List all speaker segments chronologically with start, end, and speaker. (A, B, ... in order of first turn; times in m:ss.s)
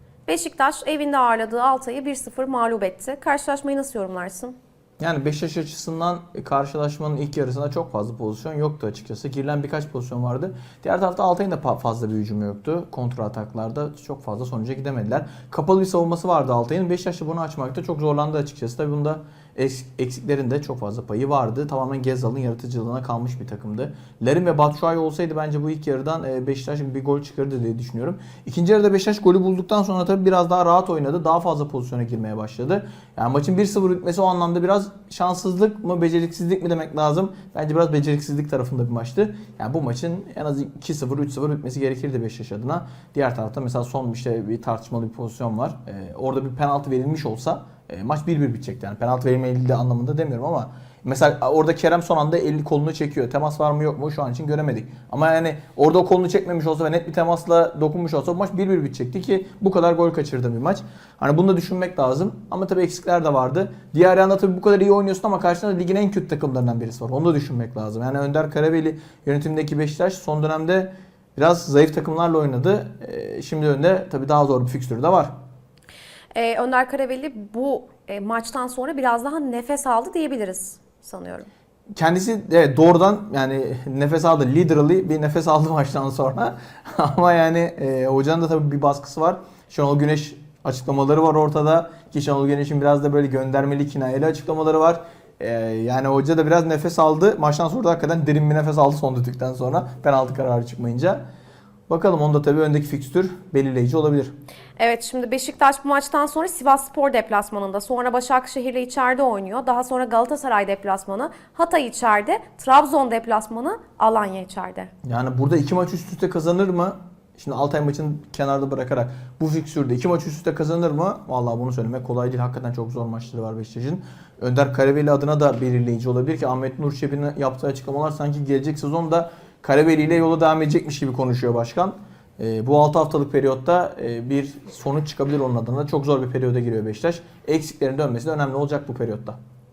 0:00.3-0:04.5 A
0:05.0-1:15.3 B
1:16.4-1:21.5 A
1:22.0-1:41.2 B
1:41.9-1:44.3 B
1:44.8-1:54.9 A
1:55.0-2:19.4 B